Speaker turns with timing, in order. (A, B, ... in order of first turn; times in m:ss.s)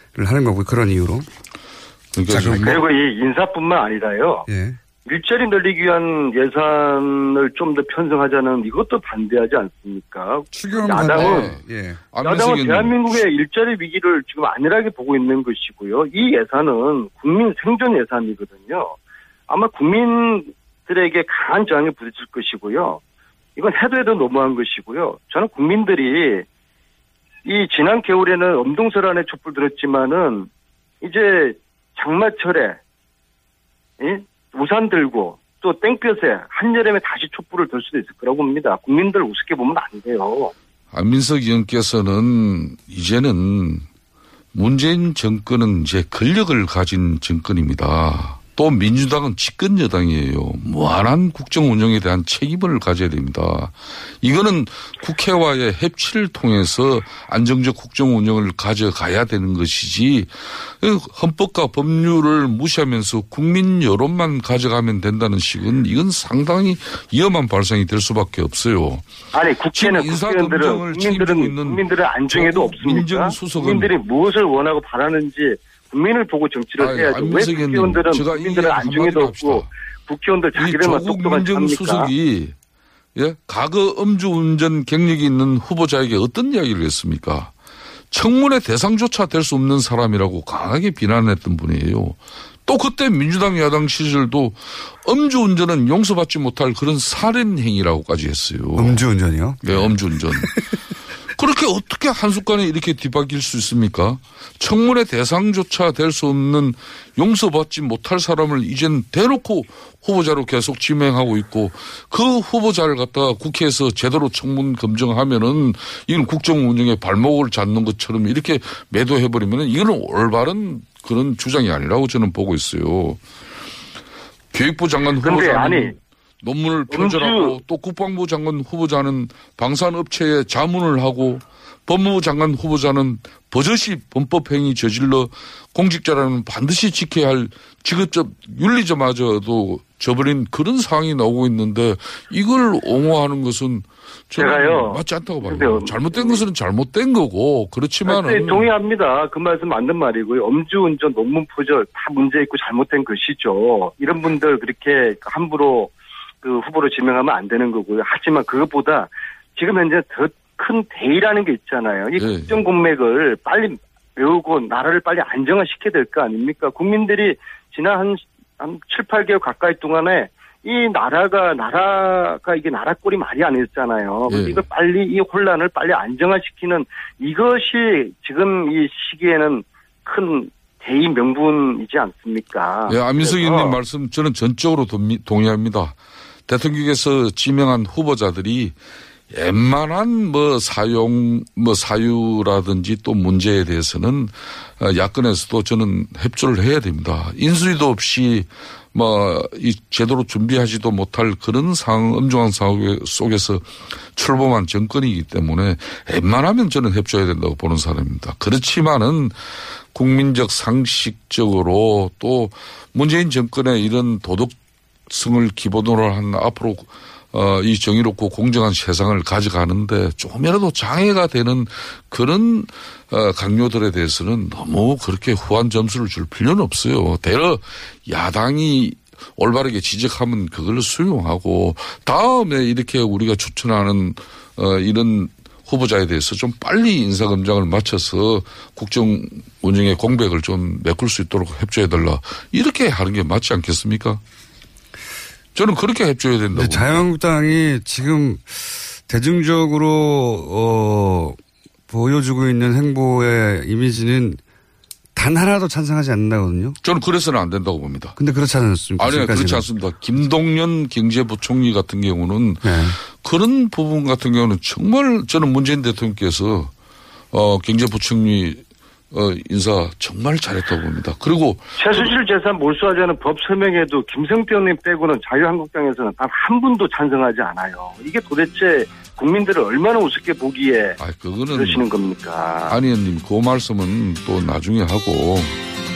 0:00.1-0:01.3 A
0:02.1-0:02.8 B
0:02.3-0:02.8 A
0:02.6-0:04.5 C
0:04.5-0:04.8 A
0:05.0-0:11.5 C
0:10.5-0:12.0 A
0:11.0-0:13.2 B
0:12.2-0:19.0 C
0:19.5-0:23.0 C
0:23.6-0:26.4 C
0:27.4-0:30.5 C
0:31.0-0:32.8 C
0:34.0-0:40.5 C
0:40.9-0:43.8 B
0:44.5-1:09.1 B
1:09.3-1:22.1 C
1:09.7-1:13.9 B
1:16.8-1:19.7 B
1:20.6-1:22.5 B
1:23.2-1:27.5 B
1:28.1-1:39.0 B
1:38.8-1:40.5 A
1:39.6-1:40.7 B
1:41.3-2:03.2 B
2:04.5-2:28.7 B
2:05.2-2:05.9 C
2:06.9-2:07.5 C
2:24.4-2:26.4 C
2:28.1-3:03.8 C
2:42.2-2:42.6 B
2:54.3-2:54.6 B
3:02.9-3:06.0 B
3:06.5-3:08.8 B
3:09.3-3:34.6 B
3:35.1-4:04.2 B
4:05.5-4:07.0 B
4:06.5-4:11.4 A
4:11.9-4:14.4 A
4:15.1-4:16.8 A
4:16.8-4:18.2 B
4:18.2-4:19.7 A
4:19.0-4:26.7 B
4:22.6-4:23.0 A
4:27.3-4:32.1 B
4:31.8-4:41.0 C
4:41.0-4:41.8 B
4:41.5-4:42.8 C
4:42.7-4:45.5 B